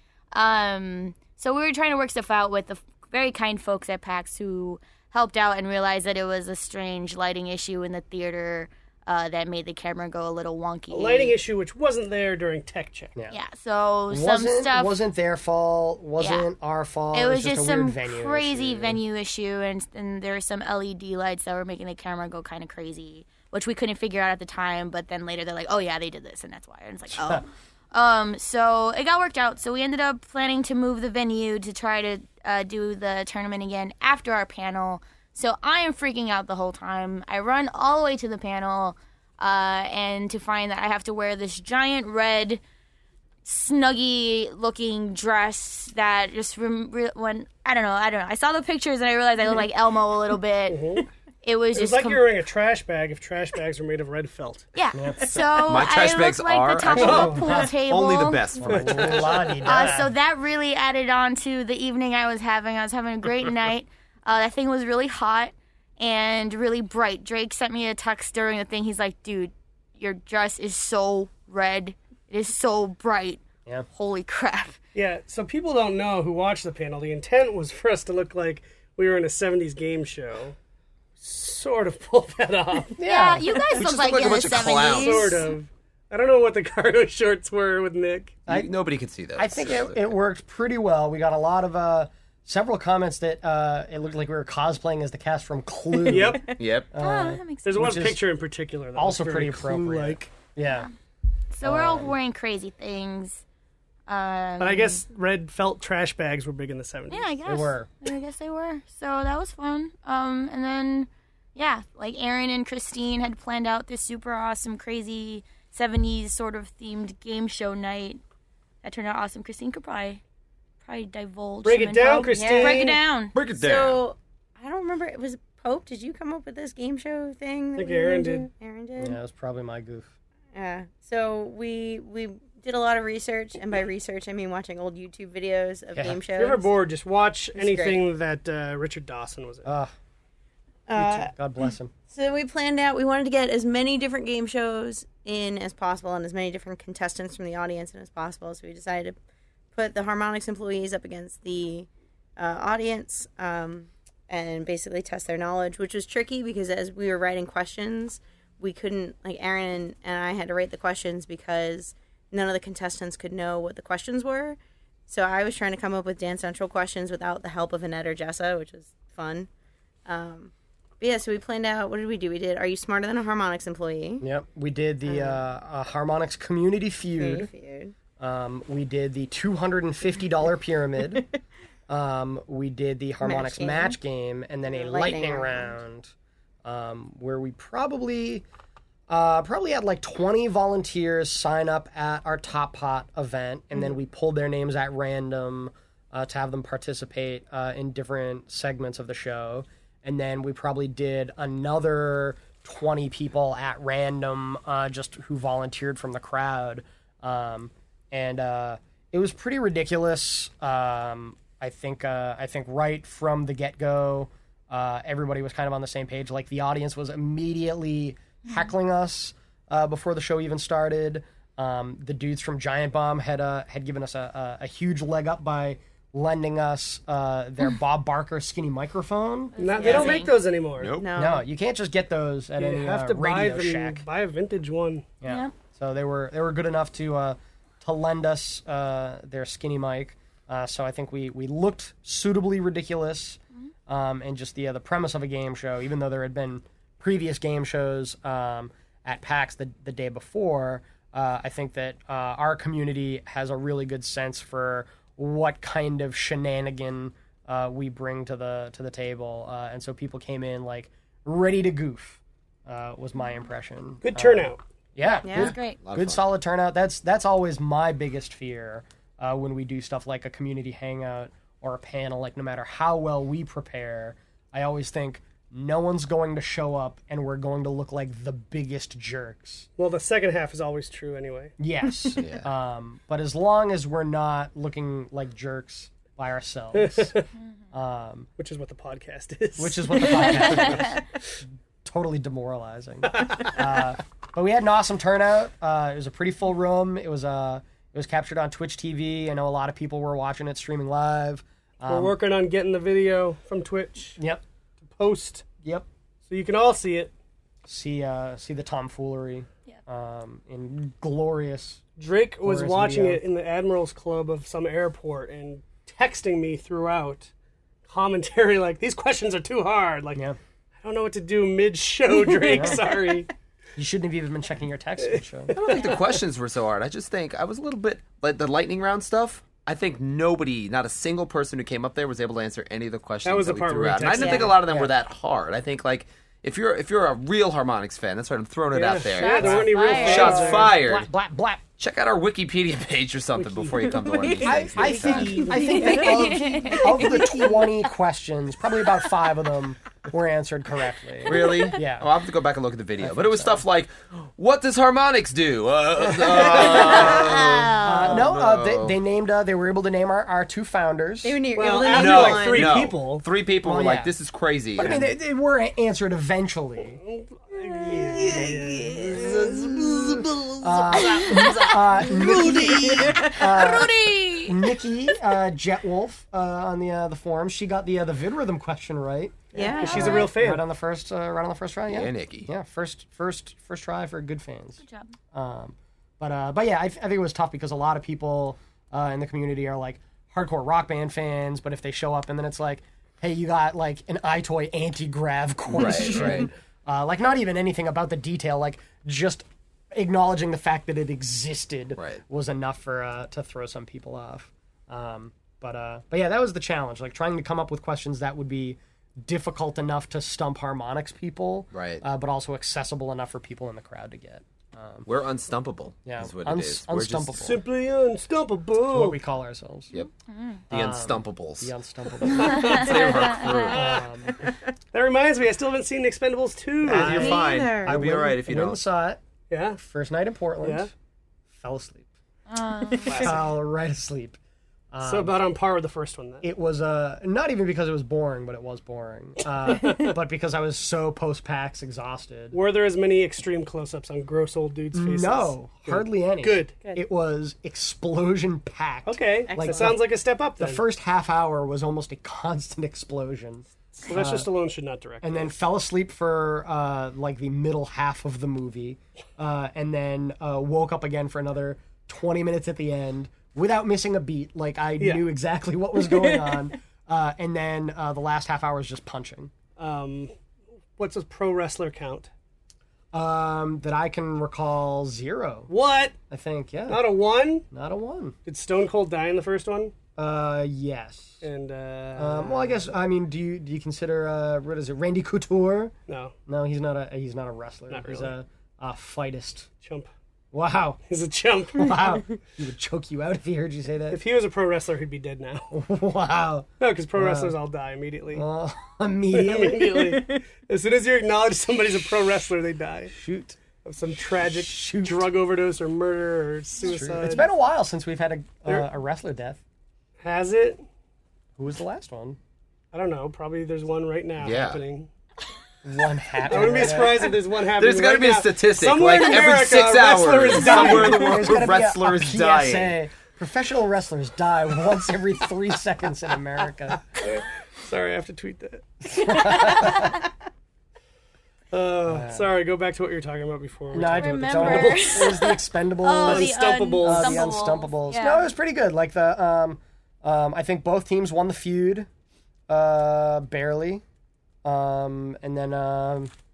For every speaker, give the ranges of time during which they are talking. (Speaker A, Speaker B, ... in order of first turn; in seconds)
Speaker A: 0.3-11.3, 13.3-14.9, 16.2-16.5, 17.1-42.6, 43.5-50.9, 51.4-52.2, 54.8-58.5, 59.6-74.8, 83.0-85.5, 97.0-97.9, 101.5-103.4, 104.1-105.0, 107.1-118.2, 118.8-120.2, 120.8-123.4, 229.6-230.3, 235.3-235.5, 265.0-265.8, 339.2-340.6, 345.6-347.1, 370.9-374.7, 379.6-380.3, 384.8-385.2, 420.3-420.6, 422.4-423.7, 432.5-433.3, 529.3-530.1, 534.0-538.5
Speaker B: 10.9-13.1, 50.7-51.1, 51.8-54.7, 57.0-57.6, 58.7-59.6, 74.9-80.6, 81.2-83.0, 84.8-88.5, 96.1-96.5, 97.6-100.2, 104.6-107.6, 121.7-123.0, 127.8-128.5, 136.3-139.7, 229.6-230.9, 232.6-235.1, 264.0-264.6, 279.8-281.6, 286.7-287.3, 288.4-291.0, 293.1-293.6, 301.9-304.2, 304.8-305.5, 306.3-307.1, 312.0-317.3, 317.9-320.2, 320.8-323.3, 325.0-326.1, 333.2-334.6, 338.7-340.8, 343.4-344.1, 361.6-363.2, 367.0-370.2, 379.6-380.6, 417.4-419.2, 422.3-424.0, 424.9-427.4, 429.5-429.8, 430.6-430.9, 433.1-433.4, 435.0-436.5, 439.7-440.1, 442.5-446.8, 449.1-450.8, 454.0-455.5, 465.0-465.3, 469.8-470.3, 471.0-472.3, 475.7-476.2, 476.9-477.7, 478.5-479.9, 481.4-482.9, 486.1-486.4, 487.9-488.3, 489.8-490.1, 491.1-492.2, 494.1-495.8, 496.8-498.5, 499.3-503.2, 503.9-507.5, 510.2-510.8, 512.9-515.1, 516.4-521.7, 527.1-529.8, 531.7-535.6, 536.2-537.6
Speaker C: 14.1-19.0, 27.1-27.4, 54.9-55.3, 57.4-57.7, 58.6-60.1, 83.0-83.8, 88.5-88.7, 89.4-98.2, 99.0-100.9, 101.6-102.1, 107.5-107.9, 129.0-130.1, 139.7-139.9, 141.0-141.9, 174.2-177.5, 178.2-181.2, 181.9-186.1, 186.7-188.4, 189.1-230.2, 231.2-234.1, 235.2-279.7, 281.6-287.1, 287.7-288.3, 289.6-291.0, 291.8-302.2, 307.6-311.8, 312.4-313.2, 322.4-322.8, 323.8-325.6, 334.6-334.9, 339.8-341.7, 344.4-352.1, 353.0-353.6, 356.0-361.4, 363.6-364.1, 364.8-367.0, 370.5-384.8, 385.3-415.1, 416.1-417.6, 418.9-419.9, 420.7-422.9, 423.7-424.4, 426.9-429.2, 429.8-430.9, 431.5-432.1, 433.1-434.4, 434.9-435.4, 436.4-442.6, 444.9-450.0, 450.6-454.5, 455.2-469.5, 473.1-475.7, 476.3-477.1, 477.7-478.4, 480.2-481.4, 482.2-485.9, 486.5-489.7, 490.5-491.0, 491.8-494.2, 495.7-497.6, 498.3-500.0, 503.1-503.6, 504.2-505.3, 506.8-509.6, 511.6-512.4, 515.8-517.3, 520.6-527.1, 529.0-530.2, 532.1-532.5, 533.9-542.1, 542.7-544.0, 544.6-546.3
Speaker D: 55.6-59.4, 83.8-85.4, 88.5-90.0, 96.6-96.9, 123.3-124.0, 229.9-230.1, 230.8-231.1, 265.4-266.2, 282.2-282.5, 325.5-341.1, 341.8-345.5, 351.2-358.9, 361.9-365.1, 368.2-370.8, 381.9-382.5, 395.7-396.5, 411.7-412.0, 415.1-417.4, 420.7-421.7, 422.4-424.0, 426.9-428.8, 514.4-514.8, 517.8-522.9
Speaker E: 96.1-96.5, 122.3-123.0, 123.6-129.2, 130.5-136.7, 137.6-138.0, 140.9-141.3, 142.1-149.2, 149.8-169.5, 170.1-174.2, 175.1-175.4, 177.2-177.9, 183.2-184.0, 184.7-185.7, 231.0-231.4, 265.2-265.5, 334.1-334.6, 343.9-347.7, 351.4-351.7, 356.5-357.6, 361.2-362.8, 372.9-373.3, 379.5-380.3, 426.9-428.0, 449.5-449.9, 500.1-500.4